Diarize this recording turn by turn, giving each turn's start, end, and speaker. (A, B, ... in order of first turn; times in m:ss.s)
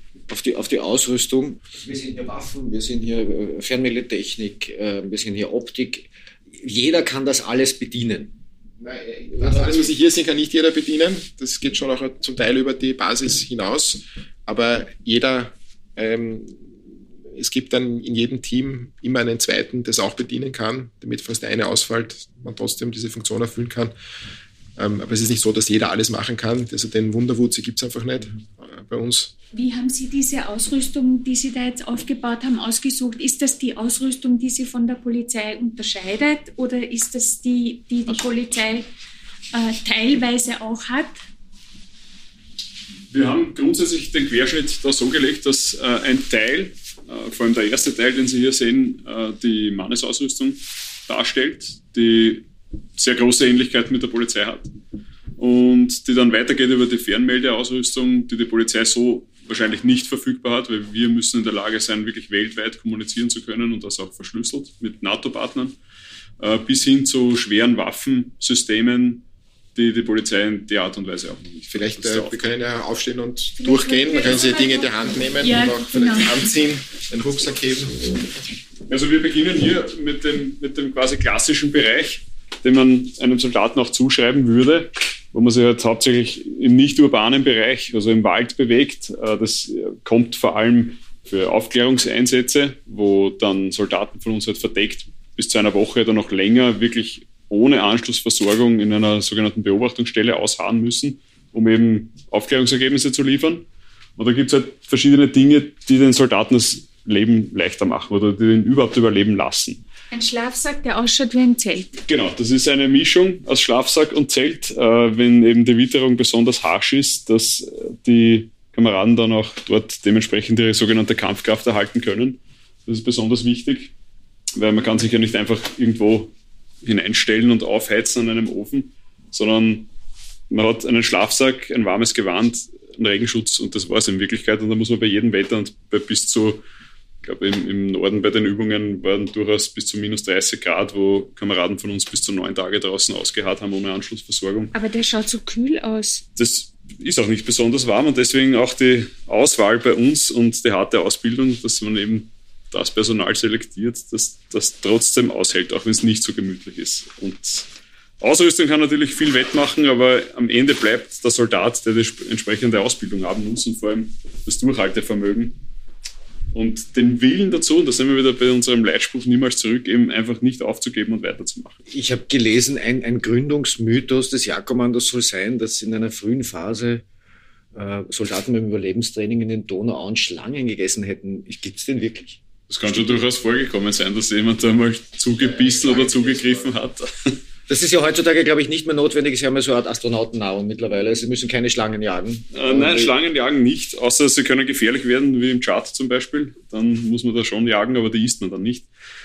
0:00.3-0:08.3 A
0:08.8-0:16.6 B
0:09.3-0:09.9 A
0:17.3-0:23.9 B
0:24.8-0:29.3 B
0:29.5-0:38.9 C
0:39.5-0:41.2 C
0:43.1-0:52.4 D
0:53.0-0:54.7 D
0:55.4-1:05.8 D
1:06.4-1:09.2 D
1:09.8-1:11.4 D
1:11.5-1:18.2 B
1:12.0-1:12.3 D
1:13.6-1:16.5 C
1:18.9-1:43.6 D
1:44.2-1:49.8 D
1:50.1-1:51.9 C
1:52.1-2:03.9 D
2:04.6-2:09.9 D
2:10.5-2:16.6 D
2:17.2-2:24.7 D
2:24.7-2:26.2 C
2:26.4-2:37.7 D
2:38.2-2:45.6 D
2:46.5-2:51.8 D
2:51.9-2:57.0 A
2:57.7-3:03.2 A
3:02.7-3:07.3 D
3:05.3-3:06.7 B
3:07.7-3:13.1 A
3:12.5-3:18.9 D